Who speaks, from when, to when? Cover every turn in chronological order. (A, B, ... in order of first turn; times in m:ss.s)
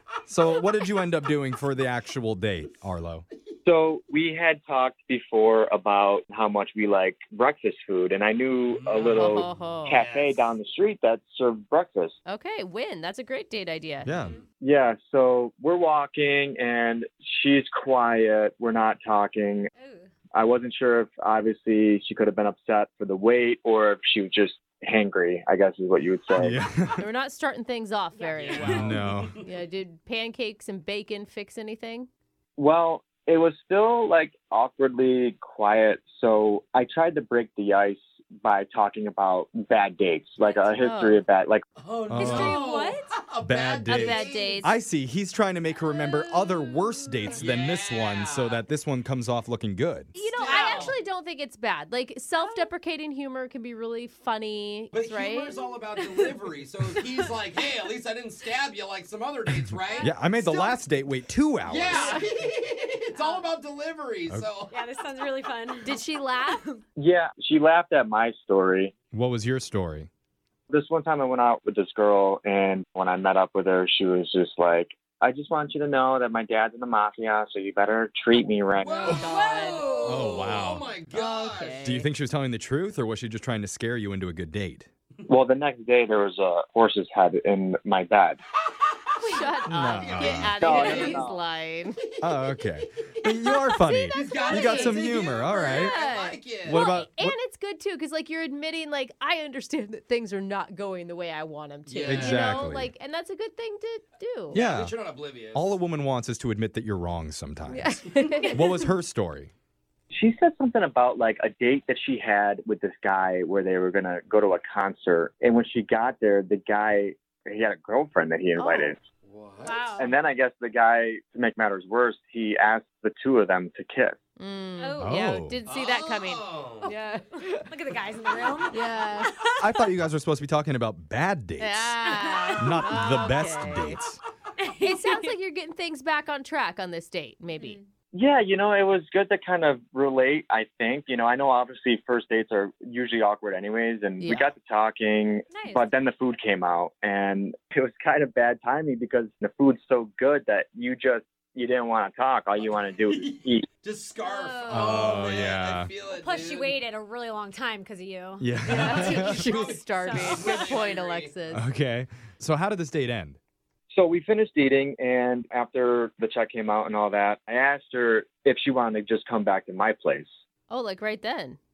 0:00.3-0:03.2 A
0:03.6-0:12.2 B
0:08.7-0:10.5 C
0:09.0-0:10.0 D
0:12.3-0:14.1 D
0:14.0-0:14.4 A
0:14.2-0:14.4 C
0:14.6-0:19.7 B
0:19.8-0:20.1 E
0:20.3-0:26.6 B
0:26.4-0:27.0 A
0:27.0-0:32.1 D
0:28.2-0:28.7 E
0:28.4-0:29.5 C
0:28.6-0:29.4 A
0:32.6-0:41.6 B
0:40.4-0:40.7 C
0:40.7-0:41.2 D
0:41.8-0:44.6 C
0:42.1-0:42.6 A
0:42.2-0:43.1 E
0:43.4-0:50.1 A
0:43.9-0:44.7 D
0:47.3-0:48.6 C
0:50.2-0:55.6 D
0:50.2-0:51.0 C
0:50.5-0:51.0 E
0:52.4-0:52.7 E
0:54.9-1:00.1 C
0:56.0-0:56.4 E
0:59.9-1:00.1 E
1:00.0-1:02.2 A
1:01.7-1:04.7 C
1:03.2-1:03.4 E
1:04.7-1:06.8 E
1:05.8-1:06.6 D
1:07.0-1:08.9 B
1:09.1-1:10.1 A
1:10.7-1:19.1 B
1:18.8-1:21.8 C
1:18.9-1:20.1 D
1:19.1-1:20.3 E
1:20.0-1:20.9 A
1:21.1-1:22.1 D
1:21.8-1:24.9 A
1:25.3-1:28.4 B
1:29.2-1:29.7 E
1:29.2-1:32.0 D
1:29.7-1:30.6 A
1:29.9-1:31.3 C
1:30.6-1:31.4 B
1:32.2-1:36.0 A
1:33.8-1:44.6 D
1:34.1-1:36.9 C
1:36.6-1:37.4 A
1:41.9-1:42.6 C
1:42.0-1:42.9 A
1:44.5-1:45.0 A
1:44.5-1:45.7 C
1:45.5-1:47.9 A
1:47.7-1:48.6 D
1:48.5-1:49.5 A
1:50.1-1:59.0 B
1:58.6-1:58.9 D
1:59.2-1:59.8 C
1:59.6-2:00.1 E
2:00.0-2:04.2 B
2:04.4-2:07.6 D
2:04.8-2:05.1 E
2:05.0-2:05.6 A
2:05.7-2:06.9 C
2:07.6-2:09.6 E
2:08.7-2:09.3 D
2:09.6-2:12.0 A
2:11.6-2:14.0 D
2:12.0-2:12.8 E
2:12.6-2:14.2 A
2:14.6-2:15.3 E
2:14.8-2:17.8 D
2:17.5-2:17.9 E
2:18.1-2:33.7 B
2:24.2-2:24.5 D
2:25.5-2:26.0 E
2:32.6-2:36.8 C
2:34.2-2:35.3 E
2:34.7-2:35.9 A
2:36.1-2:40.8 E
2:38.4-2:39.5 A
2:38.7-2:41.3 C
2:38.7-2:41.6 D
2:41.5-2:43.4 A
2:43.9-2:50.4 B
2:50.7-2:51.6 D